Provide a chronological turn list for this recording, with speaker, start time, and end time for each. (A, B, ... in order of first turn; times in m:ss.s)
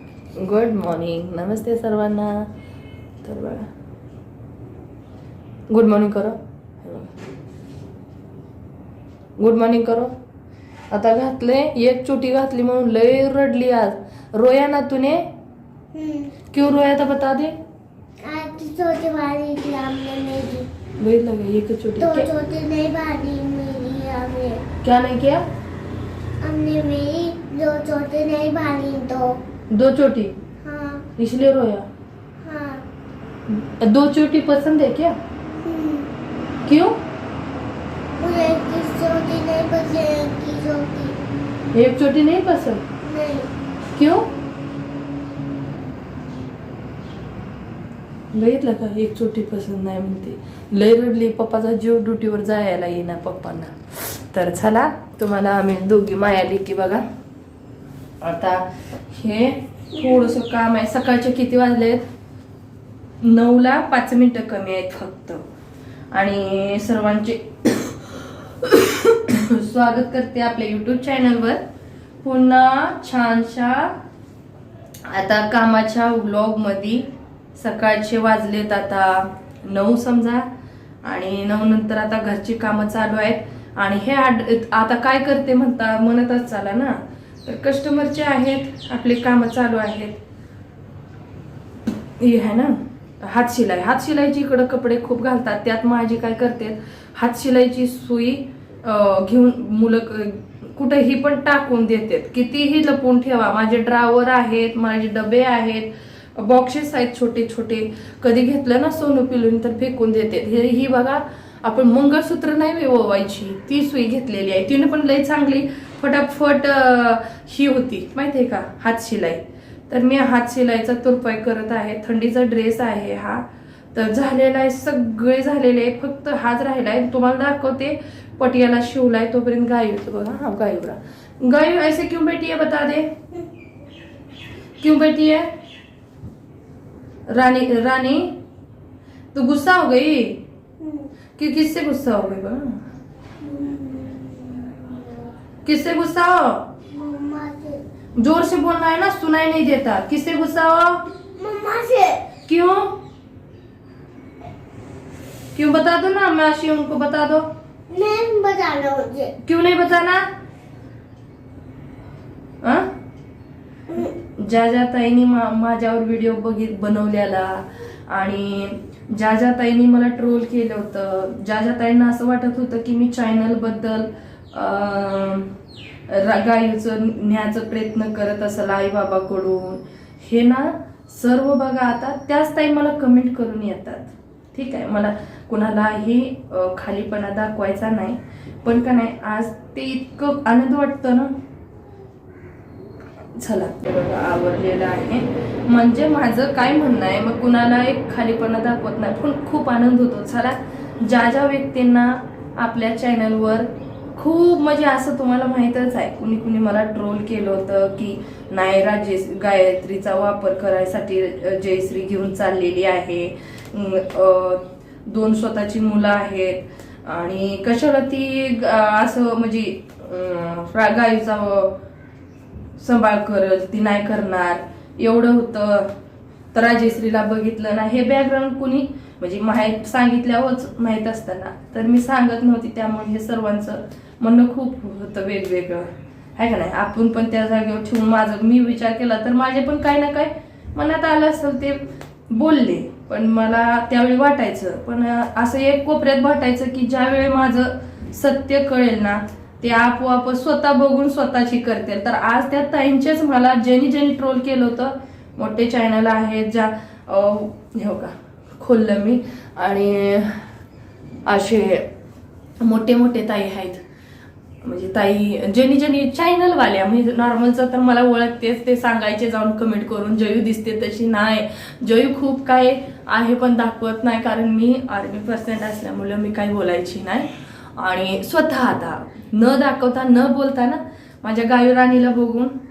0:00.4-0:02.4 A
0:03.2-0:03.7 A
0:05.7-0:07.1 A
0:09.4-0:10.1 A
0:10.9-0:15.2 A
0:15.9-0:16.3 B
0:16.5-0:17.6 A
0:18.2-0:20.7 B
0:21.0-0:22.3 A
0:22.0-0:24.6 B
0:24.8-0:25.4 A
0:26.4-0:29.4 B
0:29.7-0:30.4 A
0:30.6-0:31.0 B
0:31.2-0:31.9 A
0:32.4-0:32.8 B
0:33.5-0:35.2 A
0:35.6-0:36.1 B
0:36.6-0:37.0 A
0:38.2-0:41.2 B
0:41.7-0:42.8 A
0:43.0-0:43.5 B
0:44.0-0:44.3 A
0:48.3-0:57.0 A
0:58.2-1:02.0 A
1:03.2-1:05.4 A
1:06.1-1:11.6 A
1:12.2-1:13.9 A
1:15.1-1:20.4 A
1:21.0-1:30.2 A
1:32.2-2:13.1 A
2:14.8-2:15.5 A
2:17.3-2:18.4 A
2:19.3-2:20.4 A
2:21.4-2:22.8 A
2:23.4-2:25.3 B
2:25.6-2:26.7 A
2:26.9-2:27.8 B
2:28.2-2:31.0 A
2:31.3-2:32.2 B
2:32.4-2:33.0 A
2:35.5-2:37.4 A
2:37.9-2:39.3 B
2:39.4-2:40.2 A
2:42.6-2:42.9 A
2:44.2-2:55.5 A
2:56.1-3:11.3 A
3:13.4-3:41.8 A
3:42.8-3:45.9 A
3:46.5-4:01.8 A
4:02.3-4:20.4 A
4:21.2-4:21.9 A
4:22.6-4:23.8 A
4:24.6-4:42.5 A